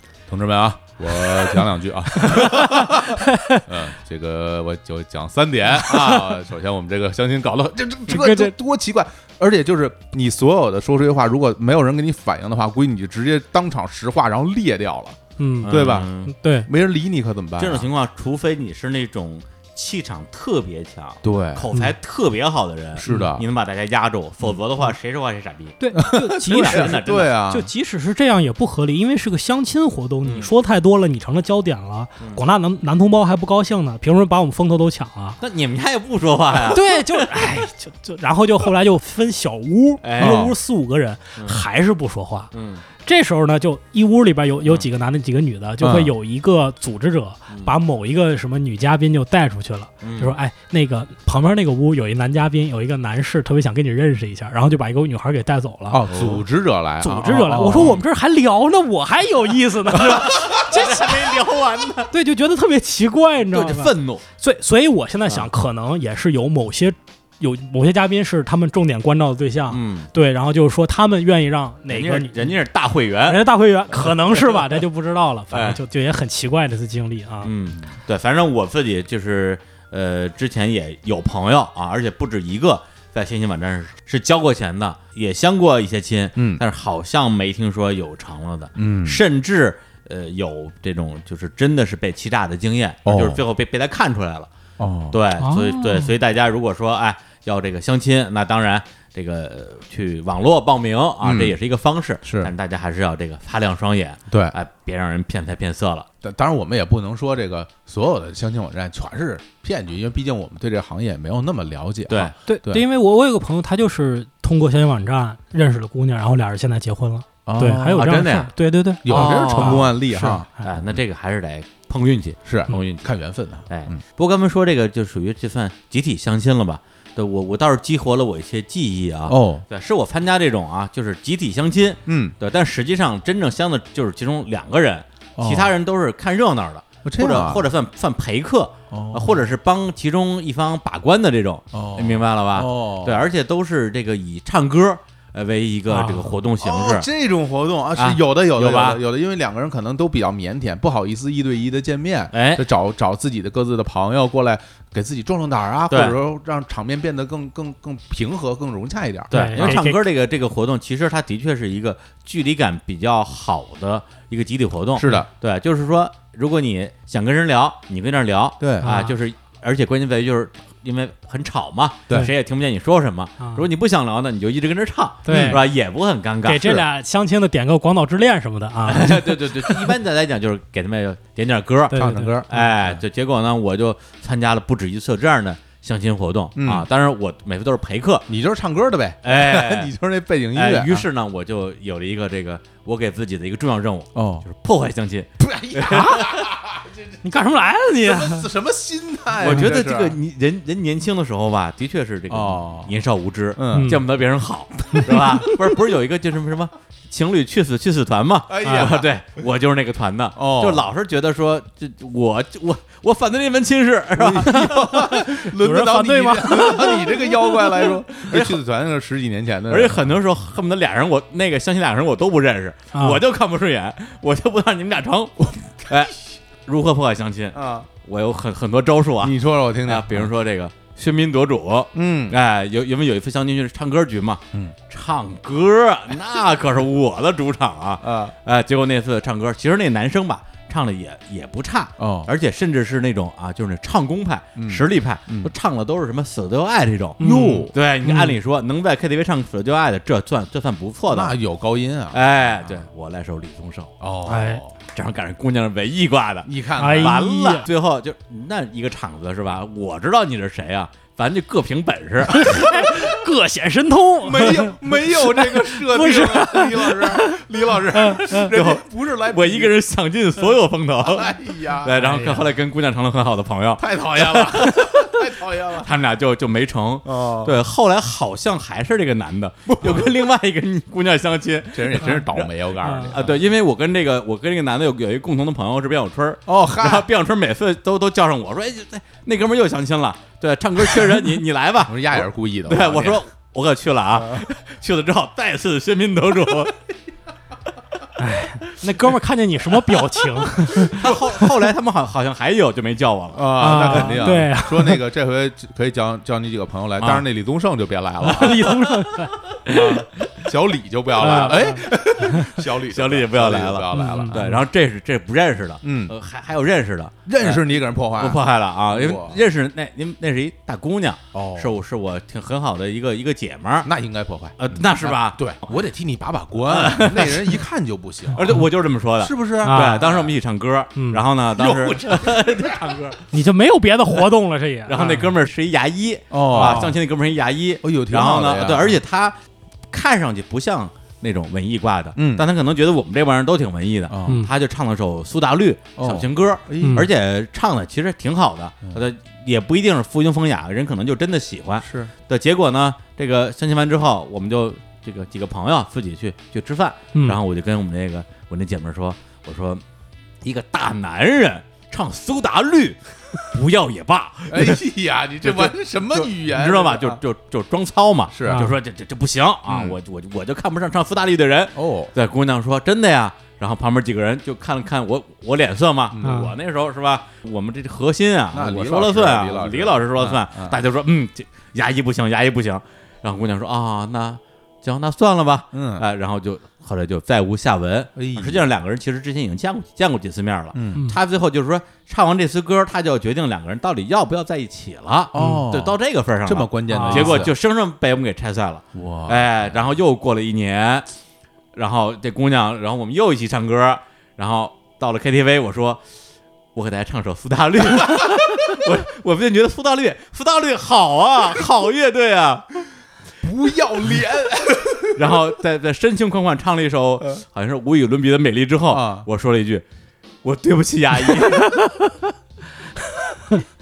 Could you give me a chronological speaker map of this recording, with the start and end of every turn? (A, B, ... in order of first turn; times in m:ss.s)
0:00.3-0:16.1 A
0:02.3-0:03.6 B
0:05.9-0:06.2 B
0:08.1-0:08.5 B
0:15.4-0:16.7 B
0:15.6-0:16.3 C
0:16.6-0:17.9 A
0:17.6-0:25.8 C
0:21.2-0:21.6 A
0:23.0-0:23.4 A
0:23.1-0:23.3 B
0:25.8-0:35.4 B
0:25.9-0:27.7 A
0:26.4-0:27.3 C
0:30.2-0:30.5 C
0:35.4-0:37.3 C
0:36.7-0:42.5 B
0:40.0-0:40.5 C
0:40.2-0:40.5 A
0:42.5-0:42.8 C
0:43.0-0:56.0 B
0:45.8-0:46.1 A
0:50.0-0:50.3 C
0:55.9-0:58.0 A
0:56.1-0:56.4 C
0:57.0-1:01.4 B
0:57.7-0:58.0 C
1:00.1-1:02.1 C
1:02.1-1:12.5 B
1:03.5-1:04.2 C
1:09.7-1:10.1 C
1:11.9-1:14.7 C
1:13.3-1:17.5 B
1:15.5-1:15.8 C
1:17.4-1:34.5 C
1:26.4-1:26.6 A
1:28.8-1:29.2 A
1:33.0-1:33.4 A
1:34.8-1:35.2 A
1:35.1-1:46.1 C
1:35.4-1:36.1 B
1:41.2-1:41.6 A
1:42.2-1:42.5 A
1:44.3-1:44.5 A
1:46.2-1:52.8 A
1:52.1-1:52.3 C
1:52.5-2:00.7 B
1:57.4-1:58.4 A
1:58.0-1:58.4 C
1:59.0-2:00.5 A
1:59.1-1:59.9 C
2:00.6-2:03.1 C
2:02.4-2:04.0 A
2:03.7-2:27.1 C
2:09.3-2:09.6 A
2:12.1-2:12.3 A
2:15.4-2:15.7 A
2:17.0-2:17.6 A
2:18.9-2:19.5 A
2:21.7-2:23.3 A
2:25.9-2:26.3 B
2:26.6-2:39.8 A
2:28.0-2:29.0 C
2:32.3-2:32.6 C
2:35.9-2:36.2 C
2:39.3-2:40.0 B
2:39.3-2:56.8 C
2:45.0-2:45.3 A
2:48.6-2:48.9 A
2:48.8-2:49.1 B
2:53.4-2:53.6 B
2:55.2-2:55.6 B
2:55.3-2:55.6 A
2:56.4-2:59.8 B
2:58.8-3:08.3 C
3:01.9-3:02.7 B
3:01.9-3:03.0 A
3:06.6-3:06.9 A
3:08.3-3:11.1 A
3:09.2-3:09.9 C
3:10.5-3:16.5 C
3:14.1-3:14.4 A
3:15.4-3:17.2 A
3:17.2-3:18.5 B
3:18.0-3:20.2 A
3:19.4-3:34.8 C
3:22.3-3:22.9 A
3:23.6-3:24.0 A
3:23.7-3:24.0 B
3:25.0-3:25.5 A
3:28.5-3:29.1 A
3:28.6-3:28.9 B
3:30.4-3:30.8 A
3:34.2-3:40.1 A
3:34.4-3:37.9 B
3:38.3-3:38.6 C
3:39.7-4:11.4 C
3:42.9-3:43.2 B
3:47.5-3:47.9 A
3:49.2-3:50.3 A
3:51.9-3:52.4 A
3:58.0-3:58.3 A
4:02.0-4:02.3 A
4:04.6-4:05.5 A
4:07.2-4:07.7 A
4:07.2-4:08.3 B
4:11.1-4:12.8 A
4:12.1-4:13.9 C
4:14.0-4:14.7 A
4:14.3-4:14.6 B
4:14.9-4:22.7 C
4:16.4-4:17.2 A
4:16.8-4:17.7 B
4:22.3-4:28.5 B
4:24.2-4:29.7 A
4:28.3-4:35.1 C
4:31.0-4:32.2 A
4:31.9-4:32.5 B
4:33.8-4:36.0 A
4:35.7-4:42.5 C
4:37.0-4:37.6 A
4:39.7-4:40.1 A
4:41.7-4:43.4 A
4:42.8-4:43.1 B
4:43.1-4:56.8 C
4:46.5-4:47.1 A
4:51.9-4:53.2 A
4:54.1-4:54.5 A
4:58.2-5:01.1 B
5:00.4-5:04.4 C
5:03.3-5:08.7 A
5:03.6-5:05.0 B
5:07.0-5:07.2 C
5:08.2-5:09.3 B
5:08.5-5:10.3 C
5:09.7-5:14.6 A
5:11.2-5:12.5 B
5:11.2-5:12.0 C
5:12.9-5:17.6 C
5:13.9-5:14.6 B
5:15.8-5:16.1 A
5:17.2-5:19.4 A
5:18.2-5:23.9 C
5:21.3-5:21.7 A
5:23.8-5:28.5 A
5:24.6-5:25.7 C
5:26.6-5:27.6 C
5:28.4-5:33.2 C
5:28.4-5:28.6 B
5:29.2-5:30.4 A
5:29.6-5:30.0 B
5:31.0-5:31.2 B
5:31.5-5:33.1 A
5:33.3-5:35.3 B
5:34.9-5:39.4 C
5:36.3-5:37.0 A
5:36.5-5:36.9 B
5:37.8-5:39.0 A
5:39.9-5:59.8 C
5:42.2-5:42.4 A
5:44.1-5:44.4 A
5:46.0-5:47.1 A
5:46.8-5:47.1 B
5:51.8-5:52.1 A
5:57.1-5:57.4 B
6:00.4-6:04.8 C
6:04.5-6:07.2 A
6:05.4-6:41.1 C
6:08.3-6:08.7 A
6:08.5-6:08.7 B
6:09.7-6:10.0 A
6:11.7-6:12.1 A
6:16.1-6:16.4 A
6:16.2-6:16.5 B
6:18.5-6:20.8 A
6:25.7-6:26.0 A
6:28.2-6:28.7 A
6:30.7-6:31.0 A
6:35.3-6:37.5 A
6:35.4-6:35.6 B
6:36.9-6:37.4 B
6:38.9-6:39.8 A
6:41.7-6:46.0 C
6:46.7-6:52.9 C
6:53.4-6:55.4 A
6:55.1-6:59.8 C
6:58.9-6:59.3 A
7:00.4-7:01.9 C
7:01.4-7:02.2 B
7:03.0-7:03.6 B